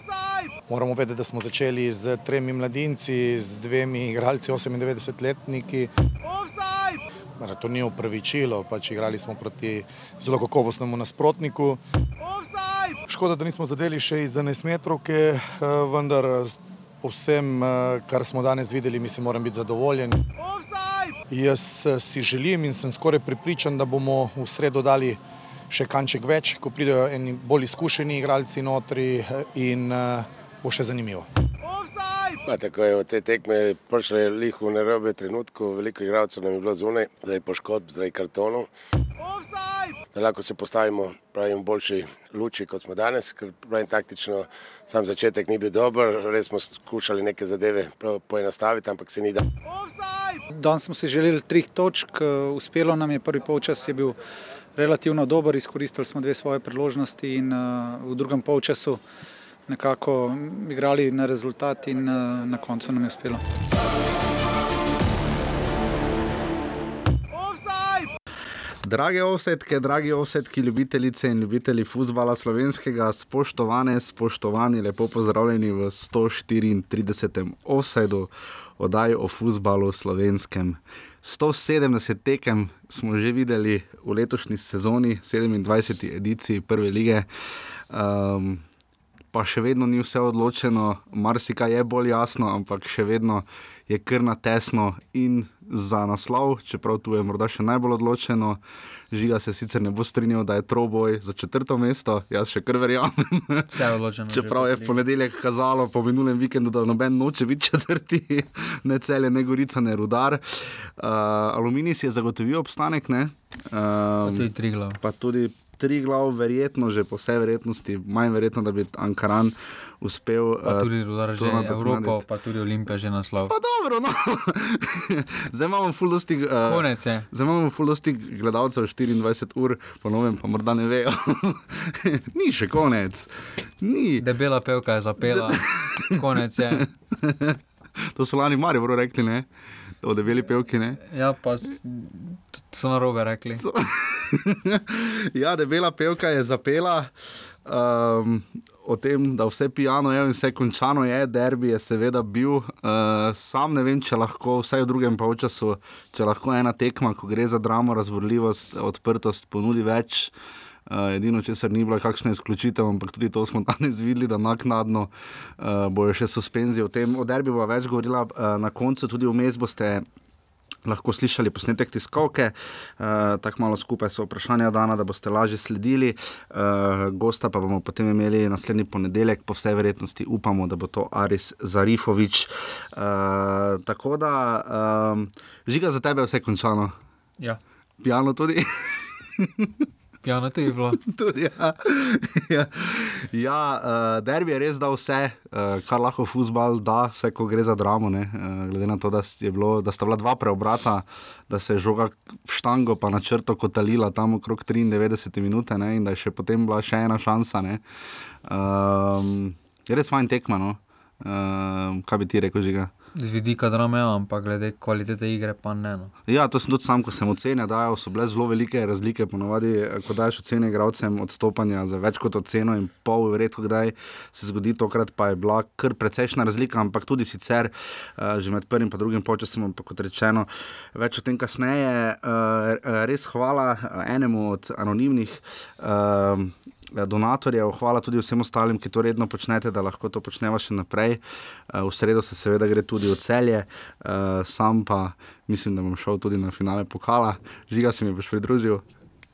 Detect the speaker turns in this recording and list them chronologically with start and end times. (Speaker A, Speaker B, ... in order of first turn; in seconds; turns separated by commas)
Speaker A: 0.7-5.9, Speaker A: 7.4-11.8, Speaker A: 13.1-20.2, Speaker A: 21.3-31.3, Speaker B: 32.5-38.7, Speaker B: 40.1-49.4, Speaker C: 50.5-54.1, Speaker C: 54.8-59.0, Speaker C: 59.7-63.4, Speaker D: 68.8-87.3, Speaker D: 87.9-88.6, Speaker D: 89.3-98.6, Speaker D: 99.1-103.7, Speaker E: 103.7-105.0, Speaker D: 104.3-114.5, Speaker E: 114.2-115.0, Speaker D: 115.0-122.2, Speaker E: 120.6-123.5, Speaker D: 123.4-134.2, Speaker E: 126.7-127.3, Speaker E: 134.2-136.9, Speaker D: 135.2-137.6, Speaker D: 138.1-139.5, Speaker D: 140.0-141.0, Speaker E: 141.1-143.6, Speaker D: 143.6-147.1, Speaker D: 147.6-160.3, Speaker D: 160.9-170.0, Speaker D: 170.8-186.9, Speaker D: 188.0-189.8, Speaker E: 190.2-191.0, Speaker D: 191.0-207.8, Speaker D: 208.4-212.9, Speaker E: 213.2-216.1, Speaker D: 216.2-248.8